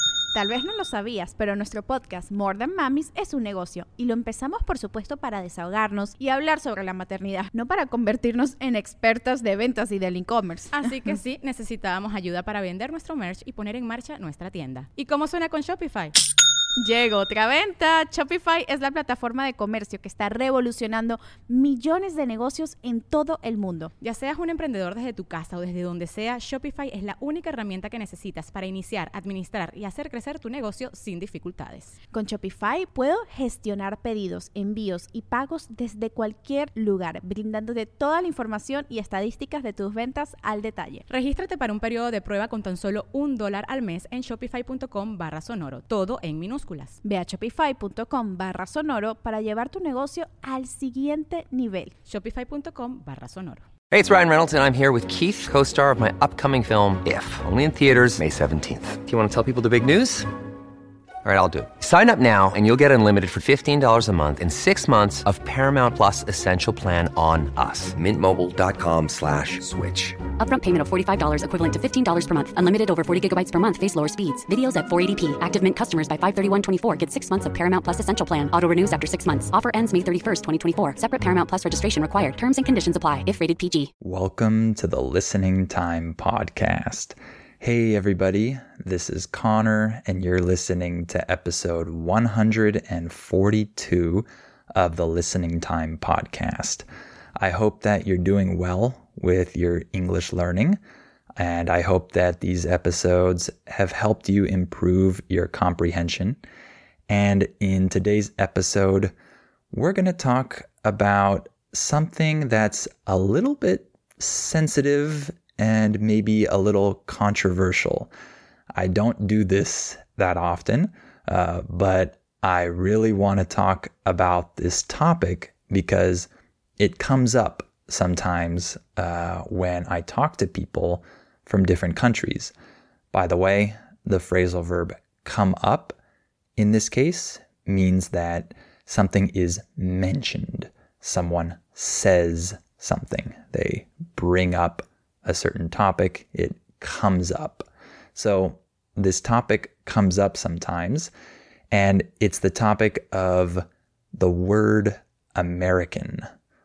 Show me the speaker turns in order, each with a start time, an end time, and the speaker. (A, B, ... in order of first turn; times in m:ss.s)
0:00.3-0:10.9 A
0:10.7-0:16.1 B
0:16.8-0:23.9 A
0:24.0-0:32.0 B
0:32.1-0:41.0 A
0:41.1-0:47.0 B
0:47.0-0:51.9 A
0:52.1-0:53.7 B
0:53.9-1:00.3 C
1:01.2-1:10.2 C
1:10.3-1:23.9 D
1:24.0-1:36.8 E
1:37.4-1:40.8 E
1:41.4-1:46.4 E
1:47.1-1:49.1 E
1:49.7-1:58.1 E
1:58.7-2:06.3 E
2:06.8-2:12.5 E
2:13.1-2:16.0 E
2:16.6-2:31.1 E
2:31.7-2:36.2 E